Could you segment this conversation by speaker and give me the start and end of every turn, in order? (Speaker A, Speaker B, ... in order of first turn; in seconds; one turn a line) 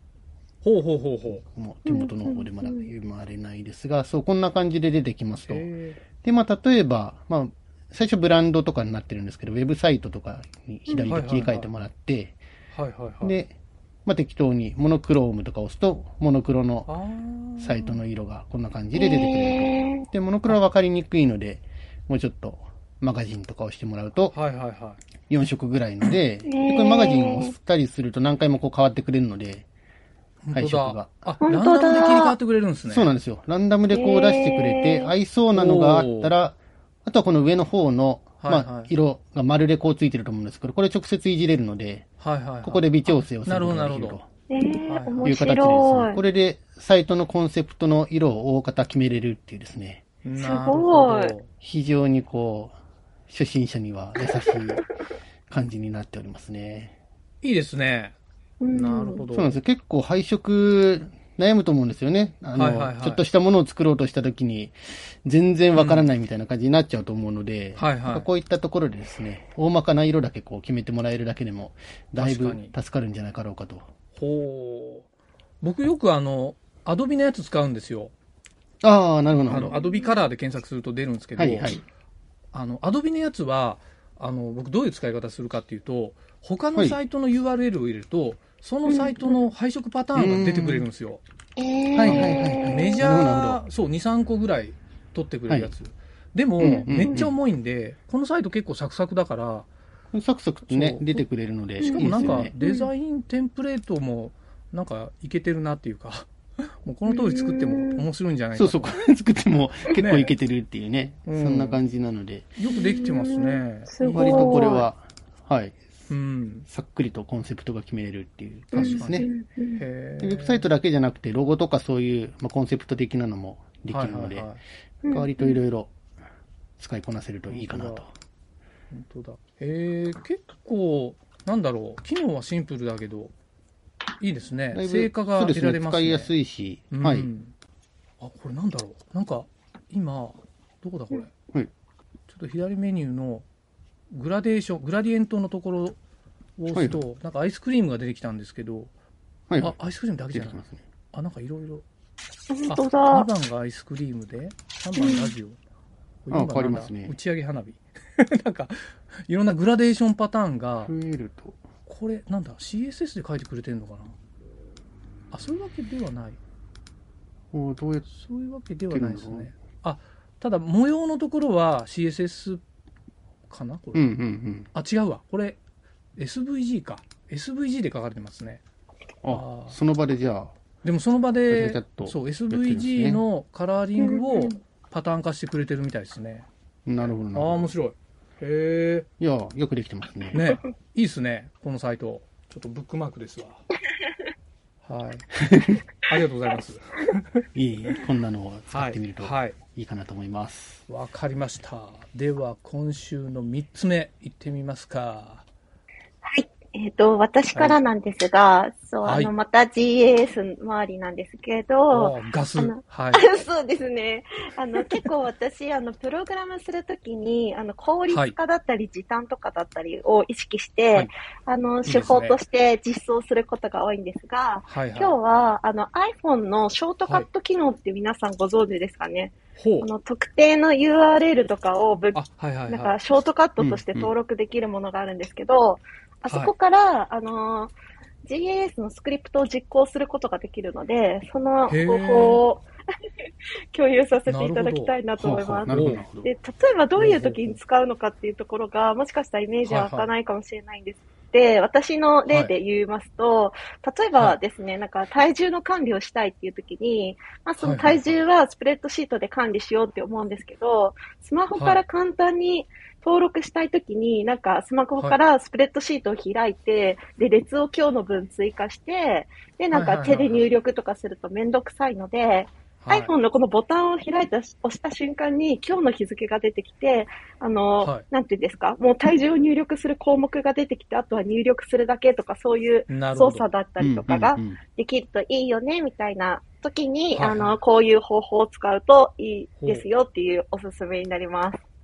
Speaker A: 0.6-1.4
Speaker B: 1.3-5.7
Speaker C: 1.9-2.9
Speaker A: 5.5-6.0
Speaker B: 6.2-12.4
Speaker A: 11.1-11.7
Speaker A: 12.7-13.4
Speaker B: 13.2-16.9
Speaker A: 16.9-17.8
Speaker B: 17.6-24.4
Speaker C: 18.9-20.1
Speaker A: 24.3-25.0
Speaker B: 25.3-29.6
Speaker C: 26.4-27.5
Speaker A: 30.4-33.1
Speaker B: 30.5-31.3
Speaker C: 31.4-32.4
Speaker B: 32.9-42.0
Speaker C: 33.9-35.1
Speaker A: 35.5-36.3
Speaker A: 38.4-38.9
Speaker A: 42.2-44.2
Speaker B: 42.6-44.3
Speaker C: 44.5-46.2
Speaker A: 44.9-45.3
Speaker B: 45.2-50.0
Speaker A: 50.2-51.5
Speaker C: 50.4-51.3
Speaker B: 51.6-52.8
Speaker B: 53.3-54.9
Speaker B: 55.5-56.9
Speaker A: 57.4-58.2
Speaker C: 58.6-59.2
Speaker A: 58.7-59.6
Speaker B: 59.3-73.9
Speaker A: 62.5-63.2
Speaker A: 65.8-66.0
Speaker A: 67.8-68.3
Speaker A: 72.2-72.7
Speaker A: 74.2-75.1
Speaker A: 75.6-78.1
Speaker B: 78.8-79.7
Speaker A: 79.5-81.8
Speaker C: 79.6-80.1
Speaker B: 81.4-81.8
Speaker A: 82.5-91.2
Speaker C: 88.9-89.4
Speaker B: 90.2-90.9
Speaker C: 91.6-93.0
Speaker B: 92.0-93.6
Speaker A: 92.1-99.7
Speaker B: 96.6-97.3
Speaker C: 96.7-97.2
Speaker B: 100.1-102.5
Speaker A: 100.7-101.2
Speaker C: 101.8-102.9
Speaker A: 101.8-106.3
Speaker A: 106.8-108.9
Speaker C: 107.1-108.0
Speaker B: 108.5-112.5
Speaker A: 110.0-110.3
Speaker A: 111.3-111.8
Speaker A: 112.6-114.8
Speaker C: 112.7-114.9
Speaker B: 114.1-115.8
Speaker A: 116.1-116.7
Speaker B: 116.7-119.3
Speaker C: 118.7-119.8
Speaker A: 118.7-120.7
Speaker B: 120.2-125.9
Speaker A: 123.9-124.6
Speaker C: 125.0-125.6
Speaker B: 126.8-128.1
Speaker A: 127.5-128.1
Speaker A: 128.9-133.3
Speaker A: 134.2-136.3
Speaker B: 134.7-137.3
Speaker A: 136.9-137.5
Speaker A: 138.2-141.3
Speaker A: 142.3-143.5
Speaker A: 144.1-146.0
Speaker A: 146.6-148.9
Speaker B: 146.7-147.0
Speaker B: 149.5-149.8
Speaker A: 149.6-150.6
Speaker B: 150.3-150.8
Speaker A: 151.1-151.8
Speaker C: 152.5-153.3
Speaker A: 152.7-155.6
Speaker C: 155.0-155.3
Speaker A: 156.2-160.9
Speaker B: 156.3-157.1
Speaker B: 160.8-161.6
Speaker A: 161.9-164.2
Speaker A: 165.3-166.4
Speaker B: 167.5-168.1
Speaker A: 168.1-172.6
Speaker B: 168.9-169.5
Speaker A: 173.5-174.2
Speaker B: 173.9-174.7
Speaker A: 174.7-175.6
Speaker A: 176.2-178.6
Speaker B: 179.2-180.5
Speaker A: 179.3-179.8
Speaker A: 180.8-186.5
Speaker B: 181.5-183.2
Speaker C: 184.0-184.6
Speaker B: 186.9-187.7
Speaker A: 187.3-189.1
Speaker B: 189.2-190.5
Speaker A: 190.3-193.7
Speaker A: 194.8-195.4
Speaker B: 195.4-195.8
Speaker A: 196.0-197.4
Speaker B: 197.6-200.8
Speaker A: 198.7-199.6
Speaker A: 200.9-205.4
Speaker C: 206.2-237.7
Speaker A: 207.5-207.8
Speaker A: 209.1-209.3
Speaker A: 211.9-213.2
Speaker A: 218.1-218.3
Speaker A: 221.8-222.4
Speaker A: 224.7-225.2
Speaker A: 229.6-229.9
Speaker A: 232.1-233.0
Speaker B: 233.6-234.1
Speaker A: 236.3-236.5
Speaker C: 238.2-242.7
Speaker A: 241.7-242.4
Speaker C: 243.7-291.6
Speaker A: 244.3-244.9
Speaker B: 245.2-246.3
Speaker A: 245.7-246.0
Speaker A: 247.0-247.5
Speaker A: 249.7-250.1
Speaker A: 257.6-258.1
Speaker A: 269.7-270.5
Speaker A: 272.8-273.1
Speaker A: 282.9-283.5
Speaker B: 283.8-284.6
Speaker A: 287.1-287.6
Speaker A: 289.6-289.9